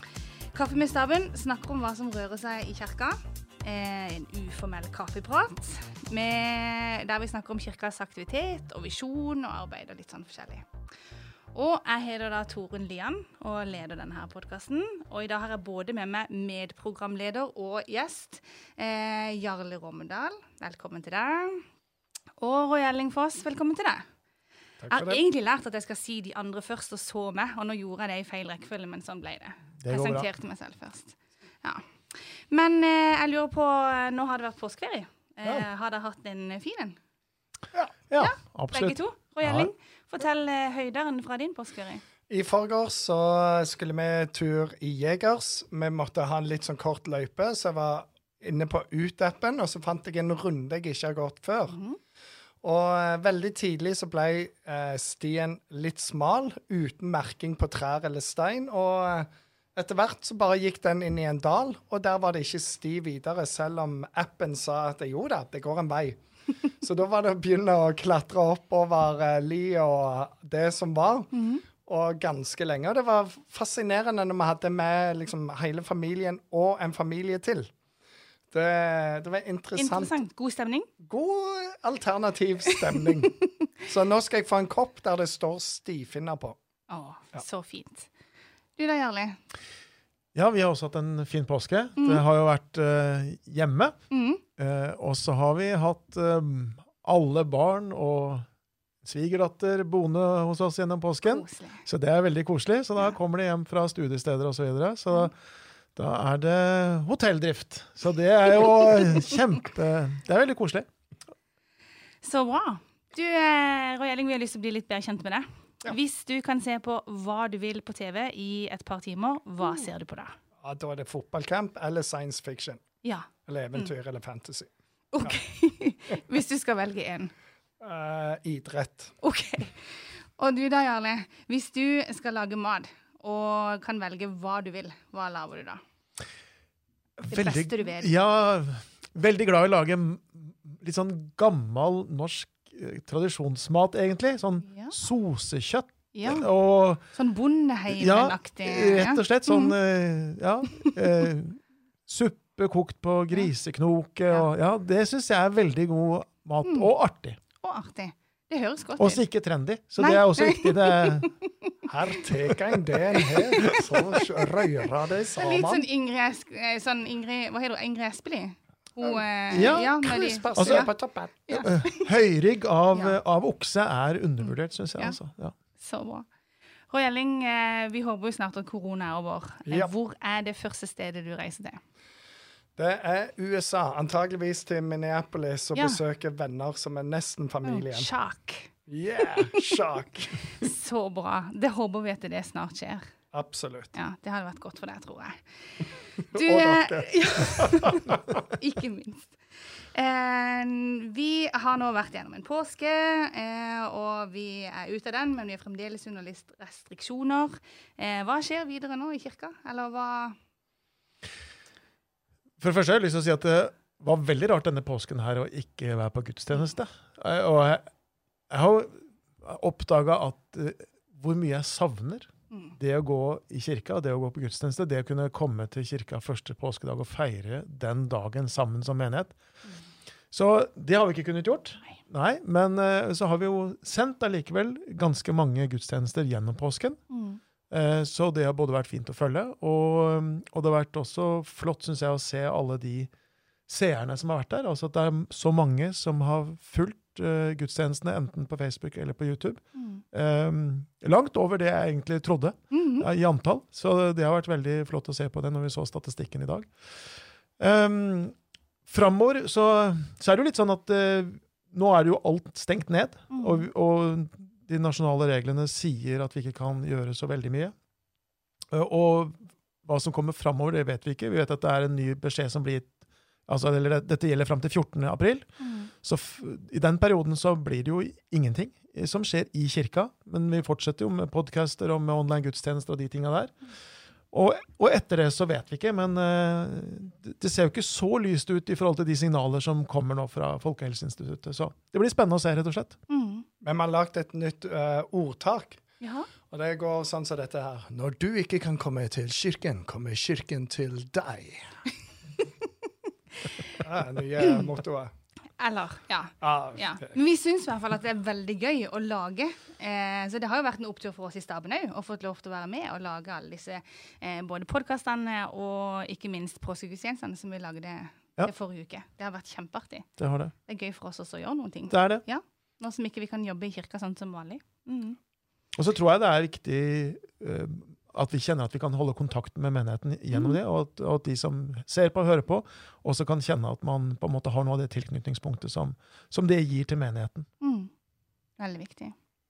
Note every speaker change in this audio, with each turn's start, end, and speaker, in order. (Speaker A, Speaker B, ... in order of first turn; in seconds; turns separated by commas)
Speaker A: 0.5-10.7, Speaker A: 11.5-21.7, Speaker A: 22.4-24.1, Speaker B: 24.8-25.2, Speaker A: 24.9-37.0, Speaker C: 29.8-30.3, Speaker C: 38.1-39.7, Speaker A: 38.2-42.0, Speaker B: 42.3-51.8, Speaker A: 51.7-52.0, Speaker B: 52.6-71.3, Speaker A: 71.3-71.6, Speaker B: 71.8-77.7, Speaker B: 78.5-80.2, Speaker A: 79.8-80.9, Speaker B: 81.0-86.6, Speaker A: 86.9-88.1, Speaker A: 88.8-89.4, Speaker C: 90.3-94.0, Speaker A: 92.0-92.2, Speaker A: 94.1-94.4, Speaker C: 94.6-98.5, Speaker C: 99.0-105.4, Speaker A: 101.2-101.9, Speaker C: 106.0-110.9, Speaker A: 112.2-120.4, Speaker B: 120.6-122.8, Speaker A: 123.0-123.9, Speaker B: 123.5-124.7, Speaker A: 125.1-127.3, Speaker B: 127.8-129.1, Speaker A: 129.2-135.8, Speaker C: 137.2-147.0, Speaker A: 137.3-138.1, Speaker A: 144.7-144.9, Speaker A: 146.1-146.5, Speaker A: 147.1-149.8, Speaker C: 147.9-157.4, Speaker A: 157.6-159.2, Speaker C: 159.0-161.3, Speaker A: 160.0-161.5, Speaker B: 161.9-165.9, Speaker A: 163.2-163.8, Speaker A: 165.4-170.9, Speaker C: 169.5-170.9, Speaker B: 170.0-171.5, Speaker A: 171.5-172.1, Speaker C: 171.5-175.5, Speaker A: 175.8-176.3, Speaker A: 176.9-181.8, Speaker B: 179.7-179.9, Speaker B: 182.8-188.1, Speaker A: 187.6-188.7, Speaker B: 188.9-190.7, Speaker A: 189.4-189.8, Speaker A: 190.5-193.1, Speaker B: 193.3-193.9, Speaker A: 193.9-210.4, Speaker B: 196.3-198.2, Speaker C: 212.6-217.8, Speaker C: 218.5-229.4, Speaker C: 230.3-237.0, Speaker A: 237.1-237.4, Speaker C: 237.7-243.1, Speaker C: 243.7-256.7, Speaker A: 249.8-250.0, Speaker A: 252.7-253.1, Speaker C: 257.6-258.4, Speaker C: 258.9-267.7, Speaker A: 263.3-263.7, Speaker C: 268.7-272.9, Speaker C: 273.5-283.6, Speaker A: 275.6-275.9, Speaker C: 284.3-293.0, Speaker A: 293.1-293.4, Speaker B: 293.6-295.8, Speaker A: 296.0-296.3, Speaker B: 296.5-301.8, Speaker A: 303.5-303.8, Speaker B: 303.8-305.1, Speaker A: 305.6-320.1, Speaker B: 306.4-307.2, Speaker C: 320.2-320.5, Speaker A: 320.7-325.2, Speaker C: 321.9-322.2, Speaker C: 325.8-337.5, Speaker A: 330.3-330.6, Speaker A: 337.6-337.9, Speaker A: 338.6-339.1